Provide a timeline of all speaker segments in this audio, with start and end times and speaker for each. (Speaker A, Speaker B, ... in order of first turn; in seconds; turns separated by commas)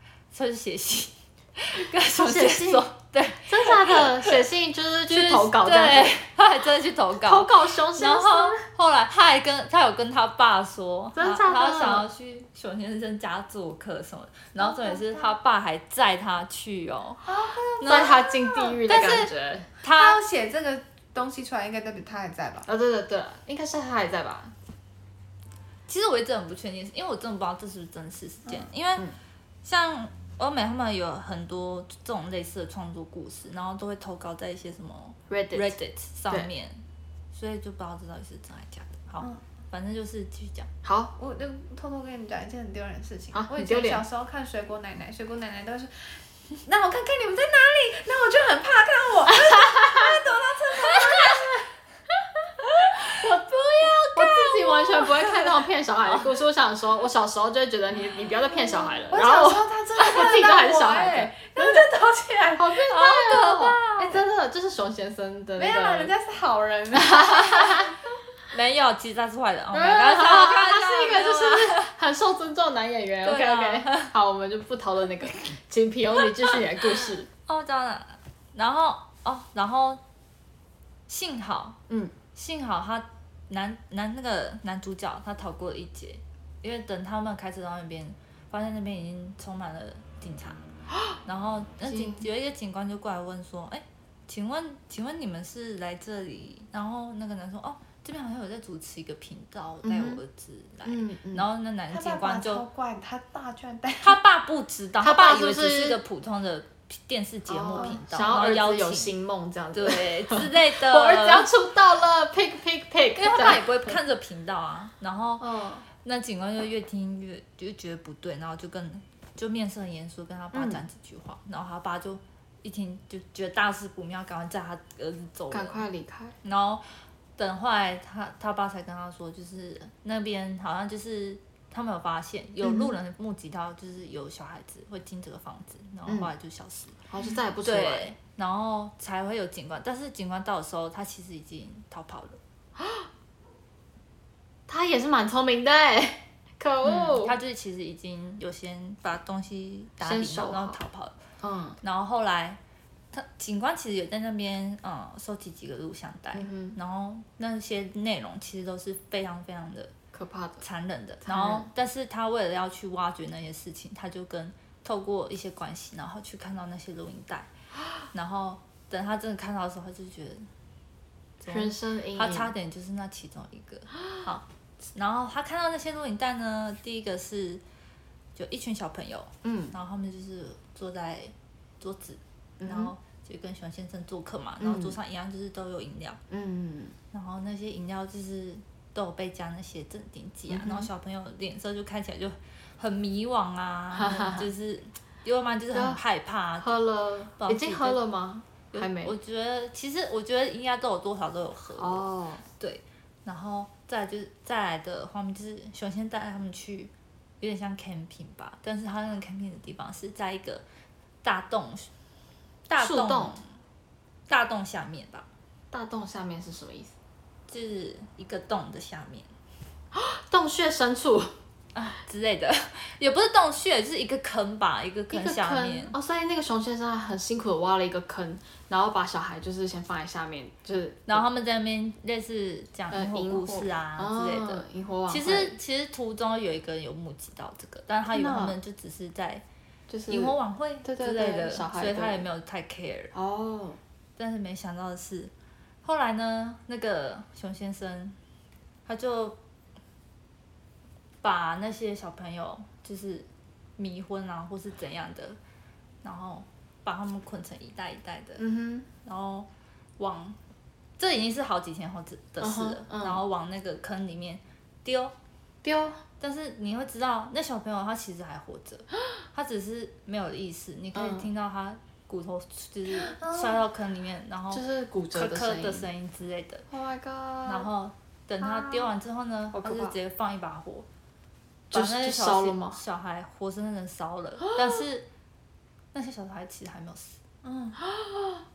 Speaker A: 0.3-4.4, Speaker B: 2.1-2.9, Speaker B: 3.5-6.2, Speaker A: 5.1-17.2, Speaker B: 7.2-8.6, Speaker B: 11.1-12.1, Speaker C: 14.6-15.3, Speaker C: 17.2-18.8, Speaker A: 17.8-18.2, Speaker B: 17.8-19.7, Speaker A: 18.9-20.2, Speaker C: 19.9-22.7, Speaker B: 22.7-24.5, Speaker A: 25.9-29.1, Speaker B: 28.5-29.2, Speaker A: 29.6-36.8, Speaker B: 35.3-35.7, Speaker A: 37.3-40.7, Speaker B: 40.8-41.1, Speaker C: 41.2-51.6, Speaker B: 43.3-44.0, Speaker B: 49.6-50.1, Speaker A: 52.8-55.5, Speaker B: 54.1-61.9, Speaker C: 58.5-63.1, Speaker B: 62.6-66.1, Speaker A: 62.8-64.2, Speaker C: 65.6-67.9, Speaker B: 66.9-67.9, Speaker A: 68.5-71.9, Speaker B: 69.7-77.3, Speaker A: 73.2-74.1, Speaker A: 77.5-80.0, Speaker A: 81.1-81.8, Speaker B: 81.9-82.1, Speaker A: 82.3-90.6, Speaker A: 91.2-102.6, Speaker B: 91.8-92.3, Speaker B: 99.8-100.2, Speaker B: 100.8-101.5, Speaker C: 101.9-104.2, Speaker A: 104.0-109.1, Speaker B: 105.0-106.0, Speaker B: 107.5-114.0, Speaker A: 109.7-111.5, Speaker A: 113.2-125.8, Speaker B: 115.4-115.9, Speaker B: 120.5-120.8, Speaker B: 125.5-126.4, Speaker A: 126.4-126.8, Speaker A: 127.4-136.9, Speaker B: 132.6-132.9, Speaker B: 137.1-138.1, Speaker A: 137.6-142.4, Speaker B: 144.7-147.3, Speaker A: 146.8-151.1, Speaker B: 150.0-150.8, Speaker B: 151.4-151.8, Speaker A: 151.8-152.6, Speaker A: 153.1-159.9, Speaker B: 156.3-156.8, Speaker B: 160.1-160.6, Speaker A: 160.6-167.5, Speaker B: 161.2-161.7, Speaker A: 168.1-170.4, Speaker A: 171.4-177.6, Speaker B: 171.5-172.5, Speaker A: 178.3-186.2, Speaker B: 179.4-179.7, Speaker B: 182.6-182.9, Speaker B: 184.6-185.0, Speaker B: 186.3-186.9, Speaker A: 187.1-196.7, Speaker B: 190.5-190.9, Speaker B: 193.9-194.5, Speaker B: 195.7-196.0, Speaker B: 196.6-199.1, Speaker A: 197.4-198.0, Speaker A: 198.7-210.6, Speaker B: 201.8-202.4, Speaker A: 211.2-211.9, Speaker A: 212.7-213.5, Speaker B: 212.8-213.4, Speaker A: 214.3-215.3, Speaker B: 215.7-216.9, Speaker A: 217.5-219.3, Speaker B: 219.9-221.3, Speaker A: 221.7-225.9, Speaker B: 225.1-231.2, Speaker A: 231.1-239.4, Speaker B: 232.9-235.6, Speaker B: 238.1-238.6, Speaker B: 239.9-242.2, Speaker A: 240.1-243.1, Speaker B: 243.1-243.8, Speaker A: 244.2-245.3, Speaker A: 245.8-248.2, Speaker A: 248.9-249.4, Speaker A: 251.2-255.4, Speaker A: 256.0-258.4, Speaker B: 258.4-258.9, Speaker A: 259.0-260.4, Speaker A: 261.0-265.1, Speaker B: 262.4-263.2, Speaker B: 265.6-266.0, Speaker A: 266.2-274.6, Speaker B: 270.9-271.3, Speaker B: 274.5-275.9, Speaker A: 275.1-276.6, Speaker B: 276.7-277.7, Speaker A: 277.4-280.9, Speaker B: 278.4-278.9, Speaker B: 279.5-279.9, Speaker B: 281.7-282.8, Speaker A: 281.7-285.1, Speaker A: 285.9-287.2, Speaker C: 287.4-287.7, Speaker B: 287.8-288.4